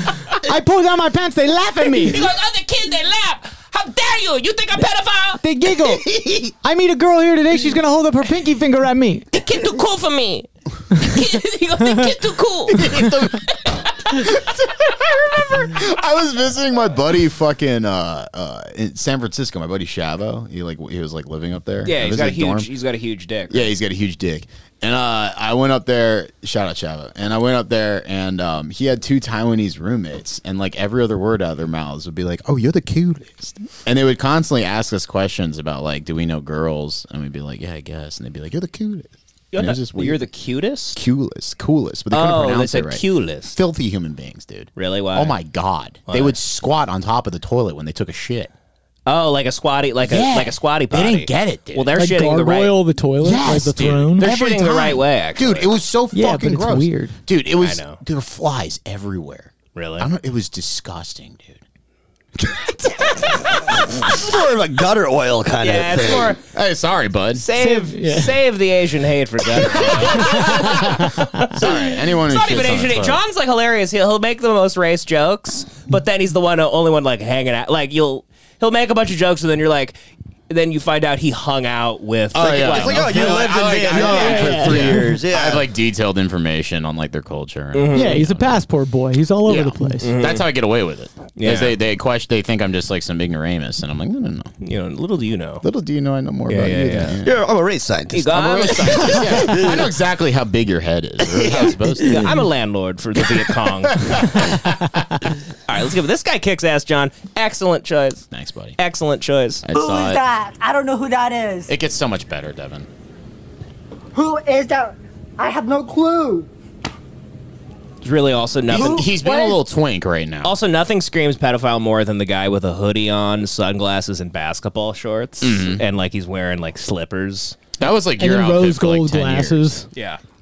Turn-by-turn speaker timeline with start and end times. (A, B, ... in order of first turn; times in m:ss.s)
0:00.4-0:02.3 A
0:01.9-0:05.4 B
0:05.4-0:09.2 A
0:09.3-0:12.8 B
0:12.7-0:22.7 C
0:21.8-0:23.7 B
0:23.5-0:40.2 C
0:39.5-0:41.0 B
0:40.9-0:48.5 C
0:42.1-0:43.6 B
0:44.8-0:45.4 B
0:46.1-0:46.3 B
0:49.0-0:52.8 B
0:50.0-0:51.9 C
0:52.0-0:54.3 A
0:53.2-1:01.6 C
0:54.2-0:55.7 B
0:56.1-0:57.1 A
0:57.6-0:58.0 B
0:59.7-1:00.1 B
1:02.4-1:03.9 C
1:03.9-1:06.4 D
1:05.6-1:06.4 B
1:06.3-1:07.4 C
1:07.3-1:20.0 B
1:07.5-1:08.4 A
1:09.6-1:13.2 C
1:20.5-1:23.3 B
1:22.3-1:28.5 C
1:22.5-1:25.7 D
1:23.9-1:25.2 A
1:27.7-1:28.2 B
1:27.9-1:30.1 A
1:29.4-1:34.5 C
1:30.0-1:30.4 B
1:31.4-1:31.8 B
1:34.6-1:35.6 B
1:35.6-1:37.4 C
1:36.5-1:37.2 B
1:37.2-1:39.8 D
1:38.1-1:39.2 B
1:38.2-1:42.3 C
1:41.3-1:42.2 D
1:42.1-1:44.6 B
1:45.7-1:48.3 B
1:48.3-1:48.8 C
1:48.8-1:49.6 B
1:49.6-1:50.2 C
1:49.7-1:51.7 E
1:51.7-1:52.9 C
1:54.1-1:56.5 E
1:58.0-1:59.1 B
1:58.7-2:00.6 C
1:58.7-1:59.6 E
2:00.4-2:07.6 B
2:05.4-2:05.8 C
2:07.8-2:09.6 C
2:08.2-2:09.8 A
2:09.9-2:10.2 B